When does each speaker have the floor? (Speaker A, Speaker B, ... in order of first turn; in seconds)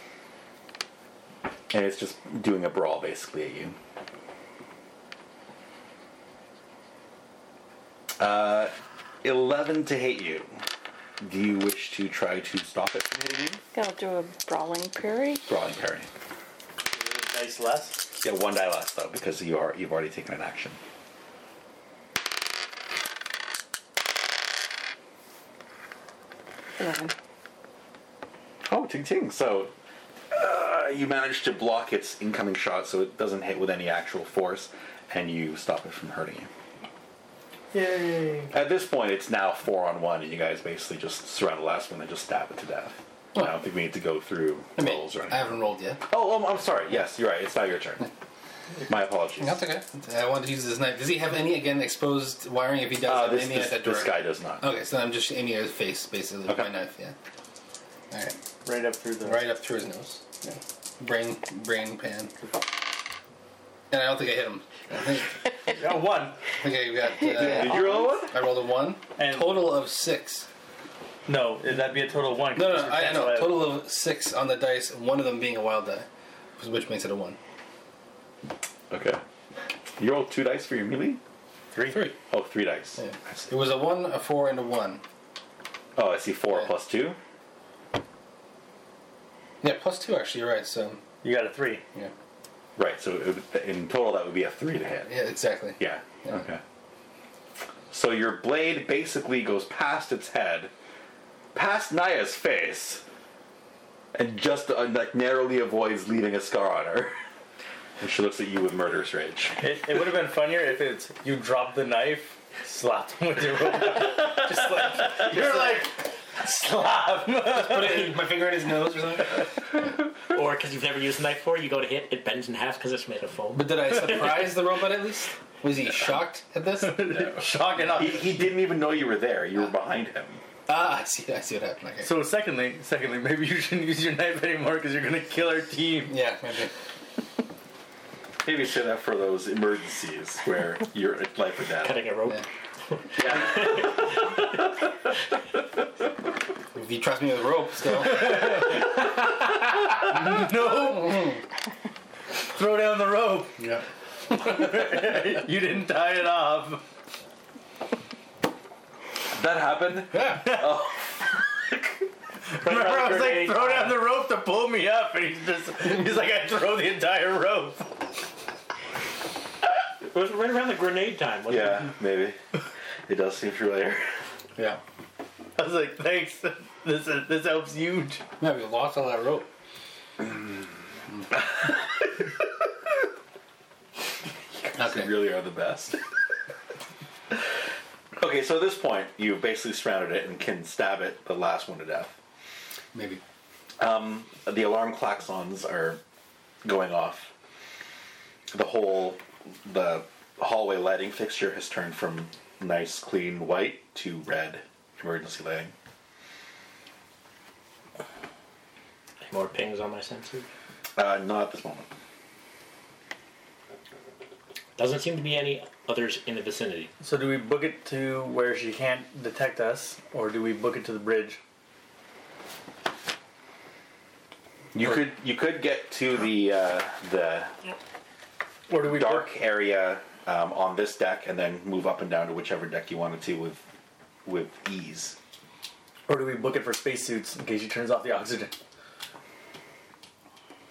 Speaker A: 1.7-3.8, 8.2-8.7, 9.2-10.5, 11.2-13.6, 15.5-16.1, 18.2-20.8, 28.6-29.7, 30.3-36.5, 38.5-45.5, 46.1-48.1, 48.9-49.6, 53.0-54.6, 67.3-68.4, 78.9-79.2, 80.0-81.2, 82.3-83.0, 86.0-87.2, 92.8-95.1, 95.8-96.6, 97.9-100.7, 101.5-103.0, 104.1-107.2, 108.0-109.6, 127.1-130.4, 138.4-142.0, 143.2-144.2, 159.3-161.1, 171.5-172.4, 173.1-174.2, 184.6-186.0, 188.2-192.1, 193.8-196.0, 196.6-197.3, 198.5-205.7, 210.9-211.9, 224.7-227.5, 228.8-233.6, 234.2-235.2
Speaker B: 13.7-15.4, 26.8-27.1
Speaker C: 16.9-18.0, 37.7-38.5, 58.6-59.5, 65.7-66.4, 69.2-69.7, 71.3-73.7, 81.7-82.1, 91.2-91.8, 109.6-118.2, 126.8-128.4, 132.0-136.2, 148.1-151.4, 152.4-153.6, 154.3-156.8, 160.4-160.7, 162.5-167.9, 175.6-178.2, 217.0-221.4, 228.7-229.3, 236.1-238.5
Speaker D: 44.8-46.0, 49.4-57.1, 58.1-58.4, 59.2-62.3, 63.9-65.7, 66.5-70.5, 72.5-76.1, 76.6-77.4, 81.8-82.2, 83.0-85.0, 89.6-91.0, 95.0-96.4, 114.3-115.8, 117.5-119.4, 123.5-127.2, 130.7-132.1, 136.1-136.7, 146.7-148.6, 153.6-153.8, 160.1-160.6, 178.4-179.5, 184.8-185.1, 192.9-193.2
Speaker E: 120.3-124.5, 141.8-144.3, 162.6-164.0, 170.1-171.9, 209.2-210.5, 214.8-216.9